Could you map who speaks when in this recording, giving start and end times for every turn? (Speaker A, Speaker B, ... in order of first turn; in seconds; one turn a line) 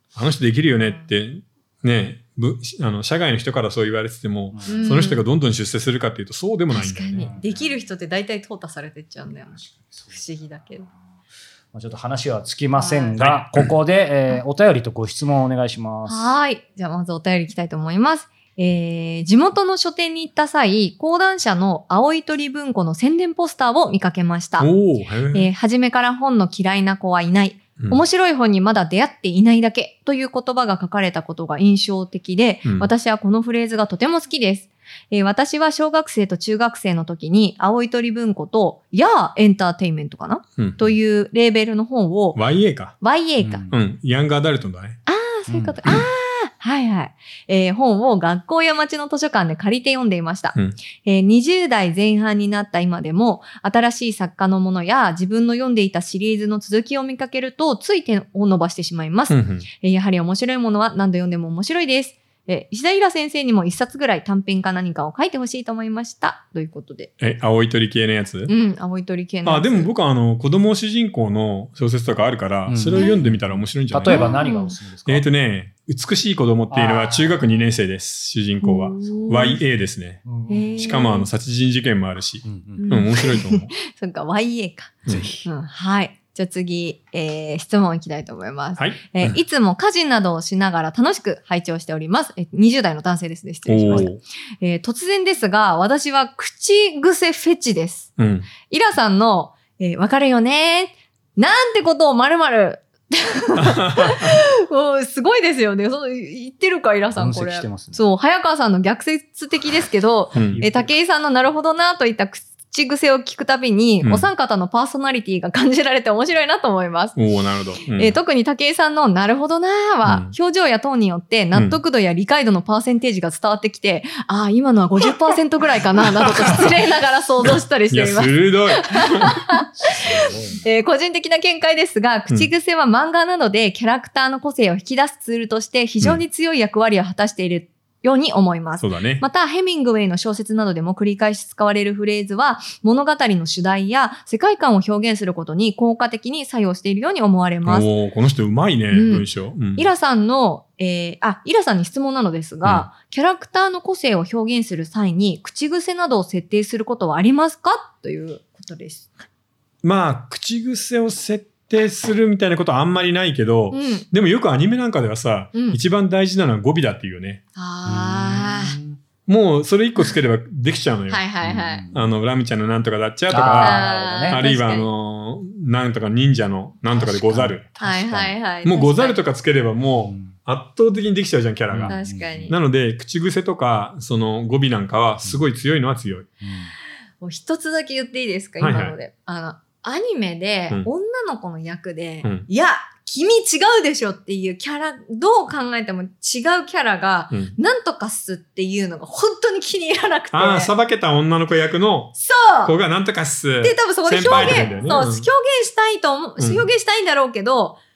Speaker A: 0.1-7.3
Speaker B: 0.7-1.1
Speaker C: 4.5-5.0
Speaker B: 4.7-5.2
Speaker B: 6.7-10.9
Speaker C: 7.1-7.8
Speaker C: 9.6-10.2
Speaker C: 11.7-16.3
Speaker B: 12.8-13.2
Speaker A: 13.2-13.7
Speaker B: 16.1-24.7
Speaker A: 24.6-25.5
Speaker B: 25.3-42.4
Speaker A: 40.6-40.9
Speaker A: 42.4-43.0
Speaker B: 43.0-43.6
Speaker C: 43.4-43.8
Speaker A: 43.7-45.0
Speaker B: 45.1-67.1
Speaker C: 45.5-45.8
Speaker A: 59.3-59.7
Speaker A: 67.2-68.5
Speaker B: 68.5-69.9
Speaker A: 69.5-74.4
Speaker C: 72.7-75.3
Speaker B: 73.0-73.2
Speaker B: 74.1-74.8
Speaker A: 75.1-80.2
Speaker C: 76.7-77.7
Speaker B: 78.6-79.6
Speaker C: 80.2-81.0
Speaker B: 80.5-81.3
Speaker A: 80.8-83.7
Speaker C: 82.4-82.9
Speaker B: 82.8-117.2
Speaker A: 85.0-85.3
Speaker C: 85.1-85.5
Speaker A: 88.8-89.4
Speaker A: 93.7-94.2
Speaker A: 98.2-98.5
Speaker A: 103.6-104.4
Speaker C: 107.1-108.1
Speaker A: 110.3-110.6
Speaker C: 110.3-111.0
Speaker A: 114.0-114.3
Speaker A: 117.2-118.2
Speaker B: 117.9-129.7
Speaker A: 120.0-120.3
Speaker A: 121.5-121.8
Speaker A: 126.5-126.7
Speaker A: 127.9-129.4
Speaker C: 129.8-130.7
Speaker B: 130.6-147.9
Speaker A: 138.8-139.2
Speaker A: 147.7-149.9
Speaker B: 148.9-159.1
Speaker A: 152.6-152.9
Speaker A: 159.8-167.4
Speaker B: 163.7-164.1
Speaker B: 165.5-165.8
Speaker B: 167.6-168.8
Speaker C: 167.8-169.0
Speaker A: 169.3-171.2
Speaker B: 171.1-171.9
Speaker C: 171.4-172.1
Speaker A: 171.9-177.7
Speaker C: 173.3-174.5
Speaker B: 173.6-174.9
Speaker C: 176.9-178.4
Speaker B: 177.8-179.2
Speaker A: 178.6-186.3
Speaker C: 180.1-180.3
Speaker C: 181.7-182.5
Speaker B: 181.9-182.6
Speaker C: 186.4-186.7
Speaker B: 187.2-200.7
Speaker A: 188.6-189.0
Speaker A: 200.3-205.3
Speaker B: 202.2-202.8
Speaker B: 203.6-207.8
Speaker C: 204.2-205.0
Speaker A: 206.4-206.7